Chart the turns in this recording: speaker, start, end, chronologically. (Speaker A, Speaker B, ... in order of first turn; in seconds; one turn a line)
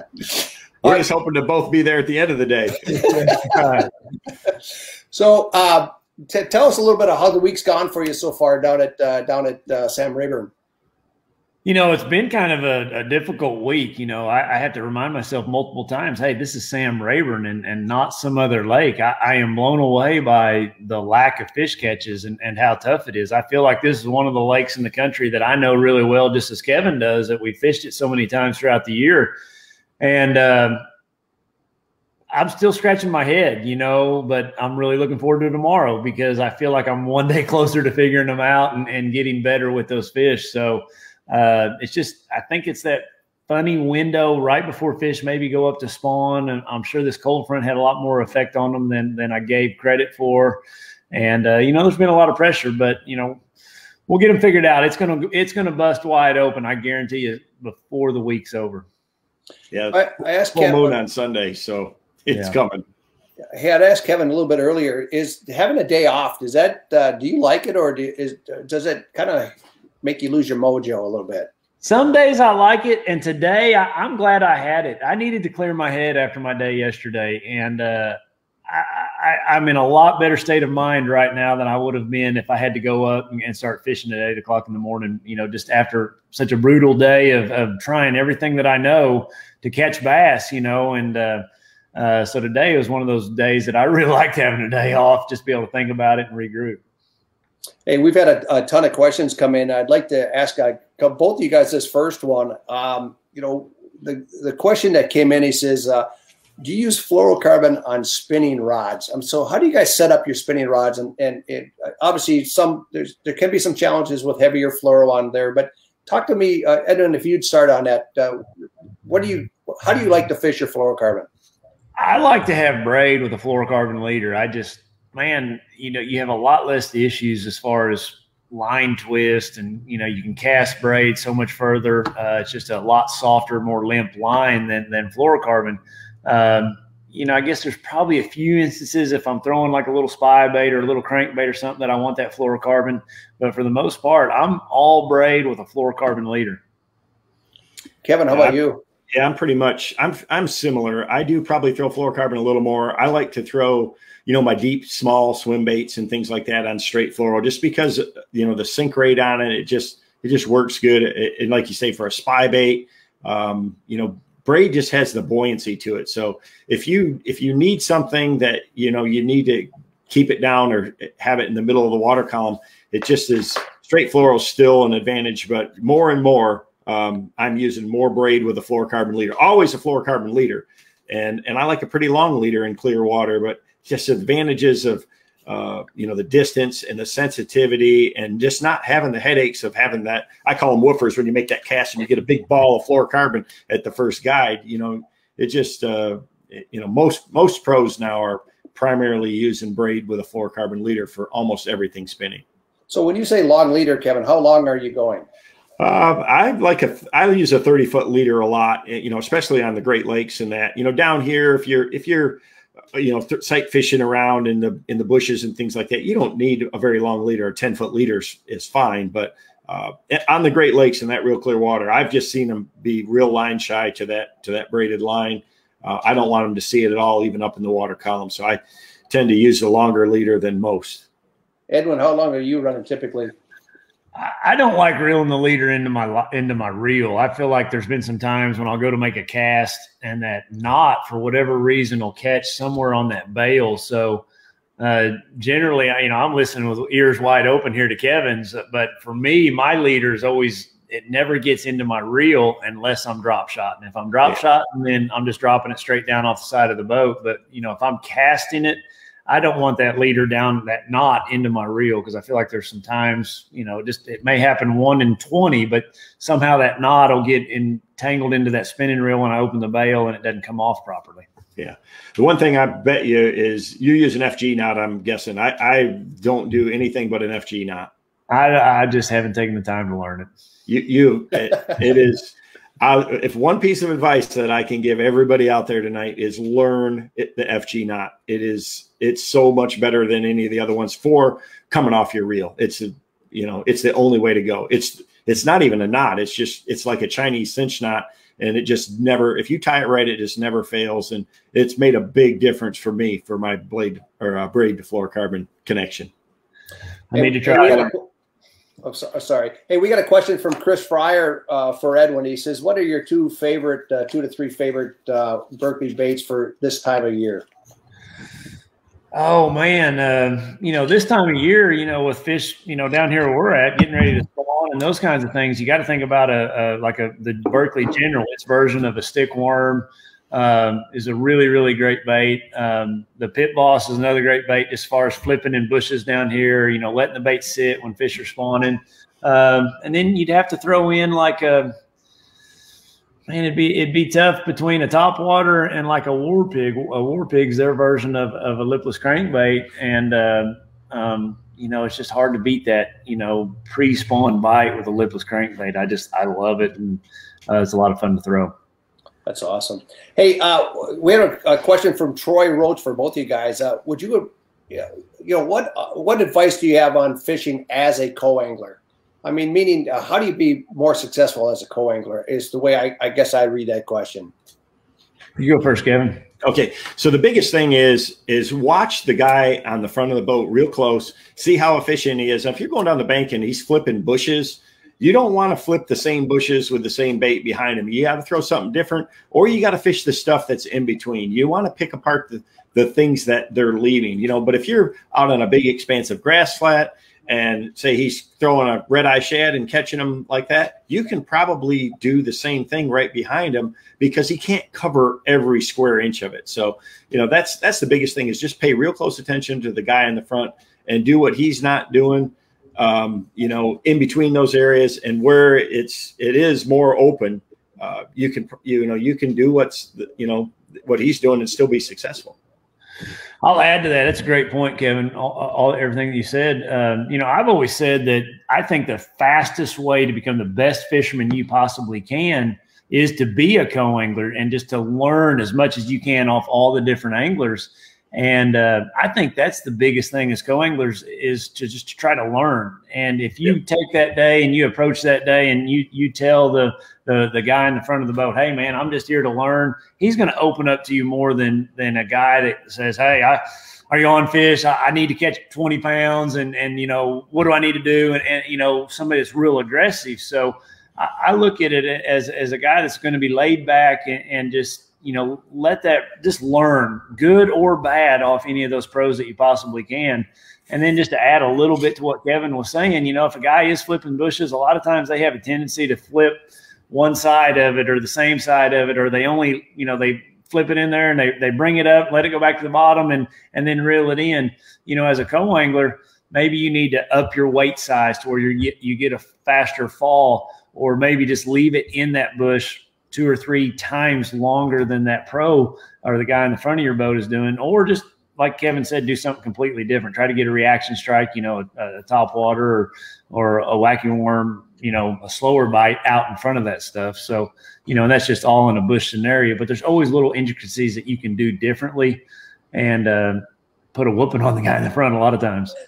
Speaker A: 0.8-3.5
Speaker B: 5.1-10.5
Speaker C: 11.6-29.3
Speaker C: 30.0-30.8
Speaker C: 32.3-50.6
Speaker C: 51.1-53.4
Speaker C: 54.1-58.9
Speaker A: 59.7-62.8
Speaker B: 59.9-61.0
Speaker B: 63.5-71.5
Speaker C: 71.8-91.4
Speaker C: 91.9-96.8
Speaker B: 97.9-106.1
Speaker B: 106.6-121.3
Speaker C: 122.0-146.6
Speaker B: 148.0-148.8
Speaker A: 149.1-202.4
Speaker B: 202.9-205.2
Speaker A: 205.8-212.4
Speaker A: 212.9-231.1
Speaker B: 231.7-233.3
Speaker C: 234.2-244.2
Speaker C: 244.8-271.2
Speaker A: 271.6-277.9
Speaker C: 278.3-280.3
Speaker A: 280.7-306.1
Speaker C: 307.1-307.9
Speaker B: 307.1-308.0
Speaker A: 307.5-307.9
Speaker B: 308.8-317.4
Speaker C: 319.1-341.7
Speaker C: 343.3-358.5
Speaker B: 359.2-374.3
Speaker C: 375.4-376.2
Speaker A: 376.4-422.4
Speaker C: 423.4-512.2
Speaker C: 512.7-513.4
Speaker C: 513.9-515.7